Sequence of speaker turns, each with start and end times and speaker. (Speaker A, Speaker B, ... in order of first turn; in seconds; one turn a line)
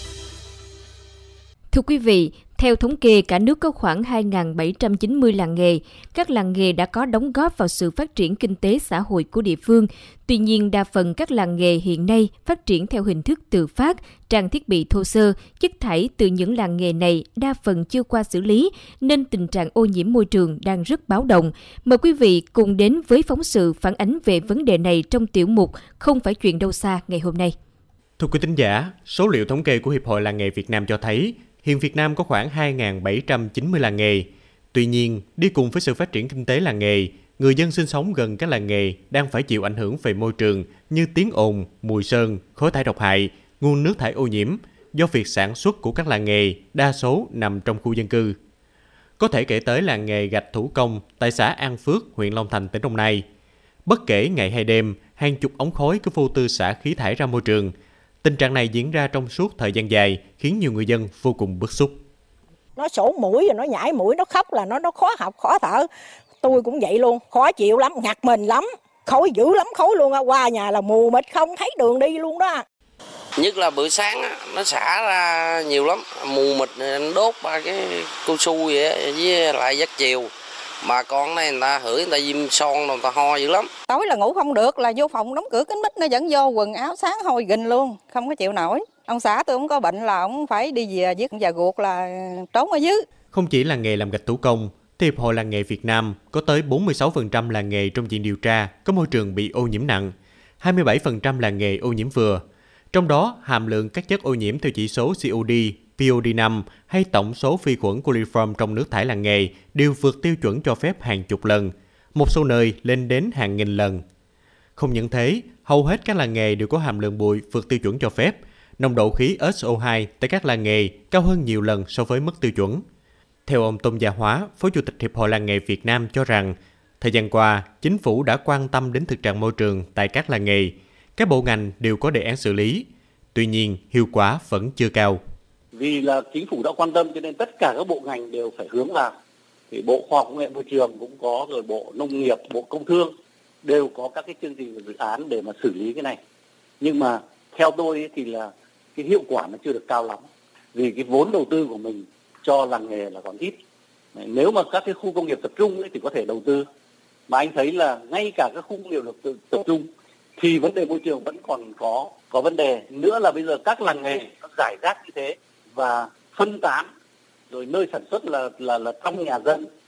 Speaker A: 1.7-27.5
Speaker B: 28.2-48.4
Speaker B: 49.2-53.2
Speaker B: 53.9-57.7
Speaker B: 58.2-62.0
Speaker C: 62.8-65.9
Speaker C: 66.4-72.6
Speaker D: 73.4-80.3
Speaker D: 80.8-83.7
Speaker E: 83.9-93.0
Speaker B: 93.3-102.4
Speaker B: 102.9-114.0
Speaker B: 114.8-122.8
Speaker B: 123.5-135.2
Speaker F: 135.7-139.1
Speaker F: 139.7-143.1
Speaker F: 143.6-146.2
Speaker F: 146.8-153.6
Speaker F: 154.2-156.7
Speaker F: 157.3-159.9
Speaker F: 160.4-166.9
Speaker F: 167.5-169.7